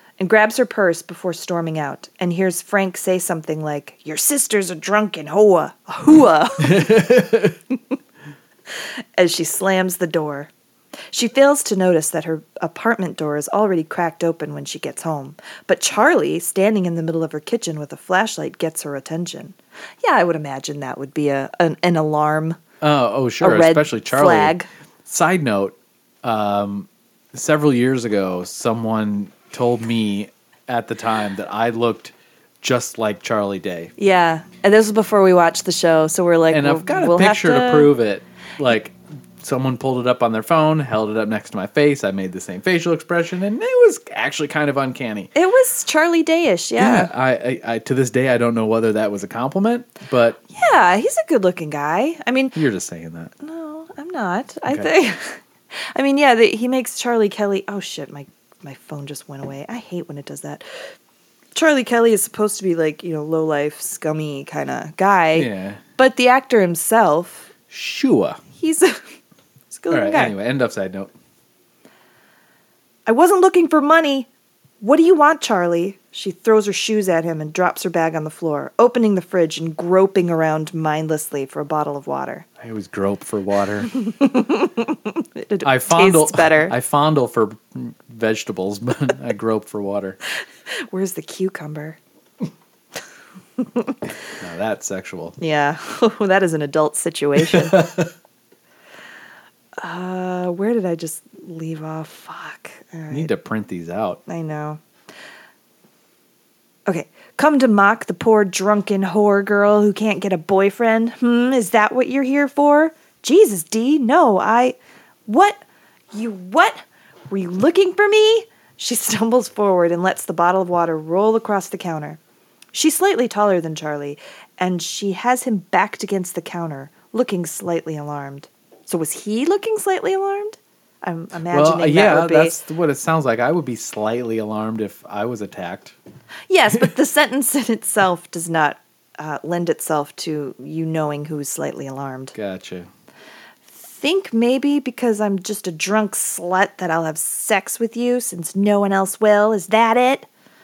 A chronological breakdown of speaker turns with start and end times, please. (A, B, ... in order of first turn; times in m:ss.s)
0:00.2-0:07.0 A
0:06.6-0:07.6 B
0:08.8-0:10.5 A
0:11.1-0:22.6 A
0:22.8-0:33.9 B
0:23.4-0:24.7 A
0:34.0-0:37.9 A
0:36.5-0:45.3 B
0:45.3-0:47.1 A
0:46.8-0:50.4 B
0:50.5-0:52.6 A
0:52.5-0:53.3 B
0:53.4-0:55.4 A
0:55.9-1:00.6 A
1:01.5-1:07.5 A
1:05.3-1:05.8 B
1:07.7-1:08.4 B
1:08.5-1:09.0 A
1:09.7-1:10.3 A
1:09.9-1:11.1 B
1:13.1-1:14.3 A
1:14.8-1:22.4 A
1:22.6-1:23.9 B
1:24.0-1:26.7 A
1:25.6-1:30.2 B
1:30.7-1:32.0 A
1:33.6-1:34.0 A
1:34.4-1:35.4 B
1:35.4-1:37.9 A
1:37.4-1:38.1 B
1:39.8-1:43.3 A
1:43.1-1:44.2 B
1:44.3-1:44.8 A
1:46.9-1:54.8 A
1:55.3-1:55.6 A
1:56.1-2:02.2 A
2:02.7-2:12.6 A
2:11.5-2:16.0 B
2:16.5-2:22.3 A
2:22.3-2:22.9 B
2:23.7-2:30.3 A